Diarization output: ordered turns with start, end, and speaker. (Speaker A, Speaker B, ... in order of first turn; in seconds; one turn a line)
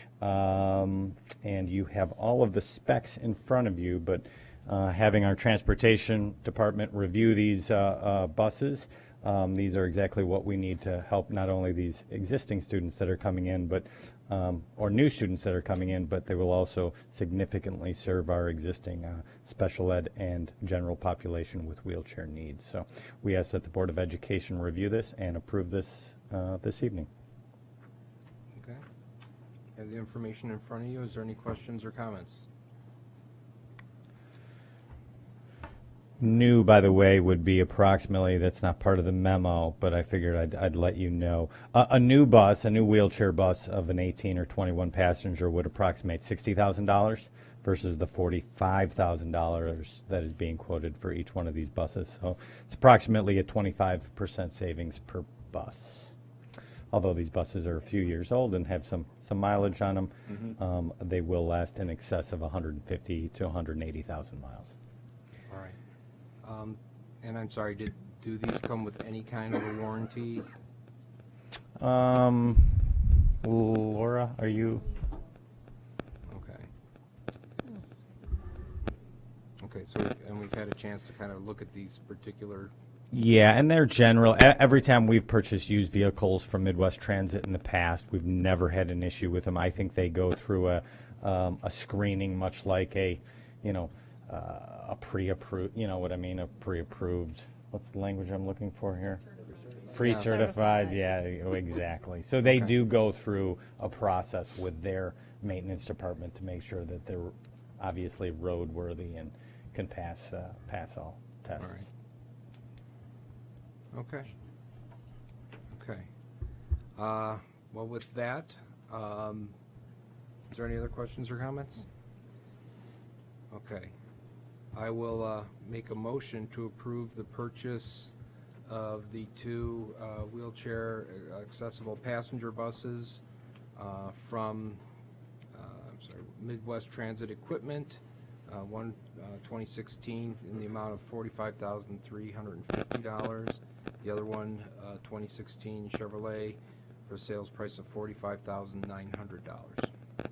Speaker A: 0.2-27.1
Speaker B: 28.6-28.8
Speaker B: 29.8-32.5
Speaker A: 36.2-56.1
Speaker A: 56.9-64.7
Speaker B: 65.5-65.8
Speaker B: 66.4-70.5
Speaker A: 71.8-74.9
Speaker B: 76.3-76.7
Speaker B: 79.6-82.7
Speaker A: 83.1-99.2
Speaker A: 99.9-111.8
Speaker B: 100.0-100.2
Speaker B: 102.5-102.7
Speaker B: 113.9-114.3
Speaker B: 115.7-116.1
Speaker B: 117.0-119.5
Speaker B: 120.5-121.8
Speaker B: 123.5-123.9
Speaker B: 124.7-128.1
Speaker B: 128.7-133.2
Speaker B: 133.8-134.8
Speaker B: 135.5-149.9